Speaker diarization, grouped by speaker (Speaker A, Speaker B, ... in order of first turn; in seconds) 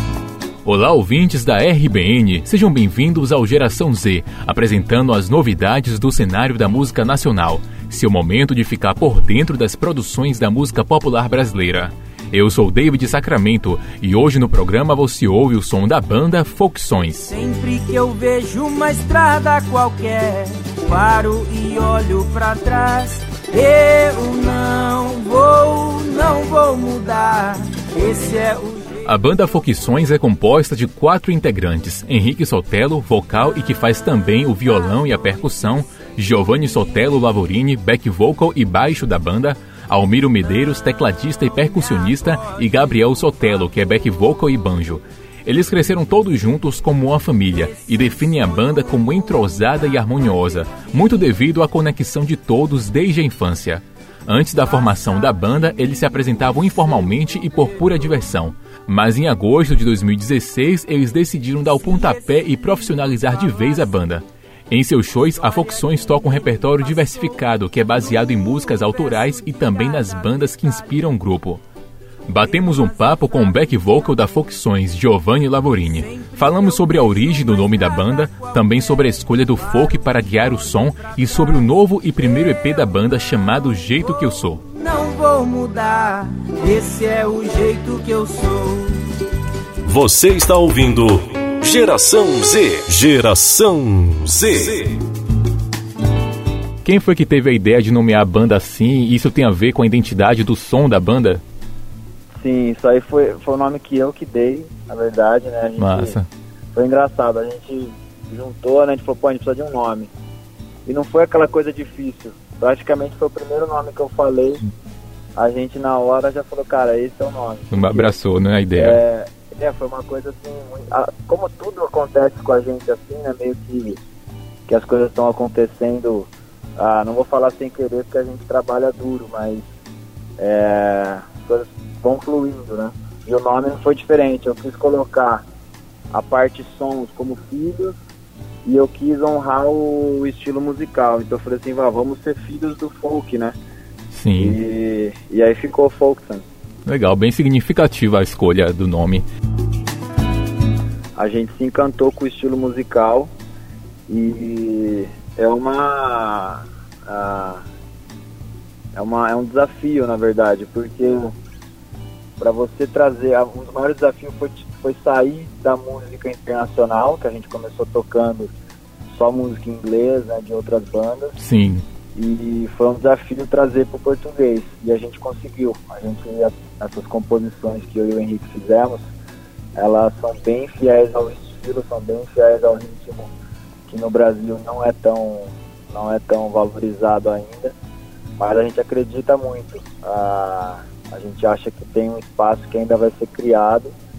Speaker A: 0.6-17.3, 29.0-71.6, 72.3-84.6, 96.8-101.4, 105.8-106.3, 117.7-119.0, 144.1-144.6, 146.8-149.2, 171.4-171.8
Speaker B: 17.3-29.0, 41.6-42.8, 47.7-49.5, 61.8-63.9, 65.2-71.2, 72.3-74.2, 75.8-81.6, 84.6-89.1
Speaker C: 89.8-95.0
Speaker D: 102.4-106.2, 106.7-110.1, 110.8-114.7, 115.3-118.1, 118.7-124.0, 124.7-129.7, 130.4-135.4, 136.1-137.9, 138.6-143.6, 144.4-146.4, 151.1-153.3, 154.1-157.6, 158.9-161.3, 162.4-168.5, 169.1-171.4, 172.1-179.0, 179.7-183.3, 183.9-187.7, 188.4-193.9